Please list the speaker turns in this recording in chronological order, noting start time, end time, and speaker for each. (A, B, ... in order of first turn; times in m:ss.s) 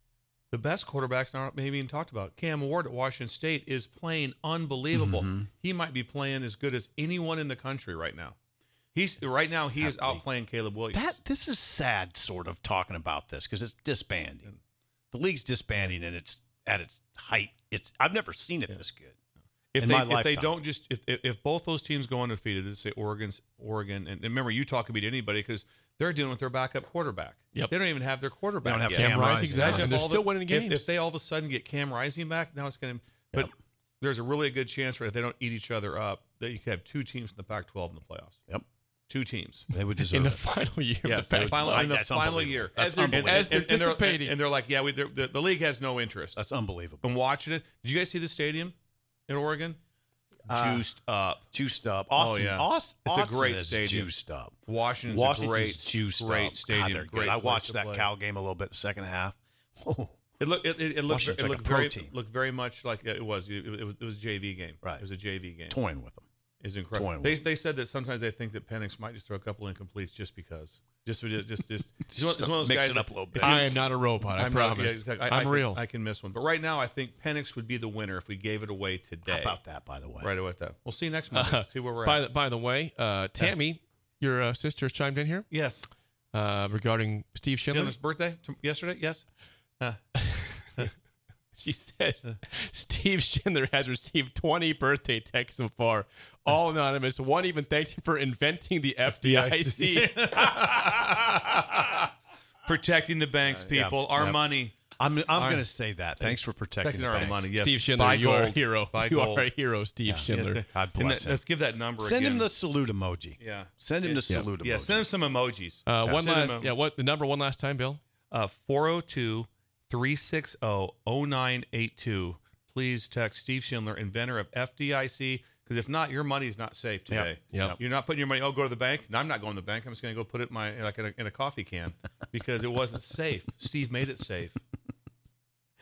0:00.5-0:08.4 A
0:04.9-0:05.5 B
0:08.9-0:11.2 A
0:09.8-0:10.2 B
0:10.9-0:14.5 B
0:15.1-0:19.1 B
0:19.7-0:38.4 A
0:19.8-0:20.6 B
0:28.6-0:30.0 B
0:28.9-0:30.9 C
0:39.1-0:39.6 A
0:39.7-0:40.4 B
0:40.1-0:41.9 C
0:41.0-0:46.4 A
0:41.3-0:43.6 B
0:42.8-0:44.4 C
0:46.4-0:47.1 B
0:47.0-0:48.7 A
0:49.3-0:49.8 A
0:50.5-0:51.4 A
0:50.5-0:50.8 B
0:51.5-0:54.6 B
0:52.2-0:54.1 A
0:54.6-0:58.1 A
0:55.1-1:00.2 B
1:00.4-1:05.8 A
1:01.1-1:02.1 B
1:05.7-1:06.2 B
1:06.6-1:13.8 A
1:06.9-1:07.4 B
1:12.1-1:13.7 B
1:13.4-1:15.8 C
1:14.3-1:19.6 A
1:19.3-1:20.3 B
1:20.2-1:22.2 A
1:21.3-1:25.4 C
1:25.5-1:25.8 A
1:26.3-1:28.0 C
1:27.7-1:29.2 A
1:30.3-1:30.8 C
1:31.6-1:40.3 C
1:39.1-1:42.0 A
1:42.6-1:44.8 A
1:43.6-1:44.4 B
1:45.0-1:47.5 B
1:45.3-1:45.7 A
1:46.2-1:49.5 A
1:47.6-1:50.6 C
1:50.1-1:51.4 B
1:50.2-1:52.5 A
1:52.0-1:55.1 B
1:53.4-1:56.7 A
1:55.9-1:58.0 C
1:58.3-2:14.6 A
2:07.1-2:07.8 B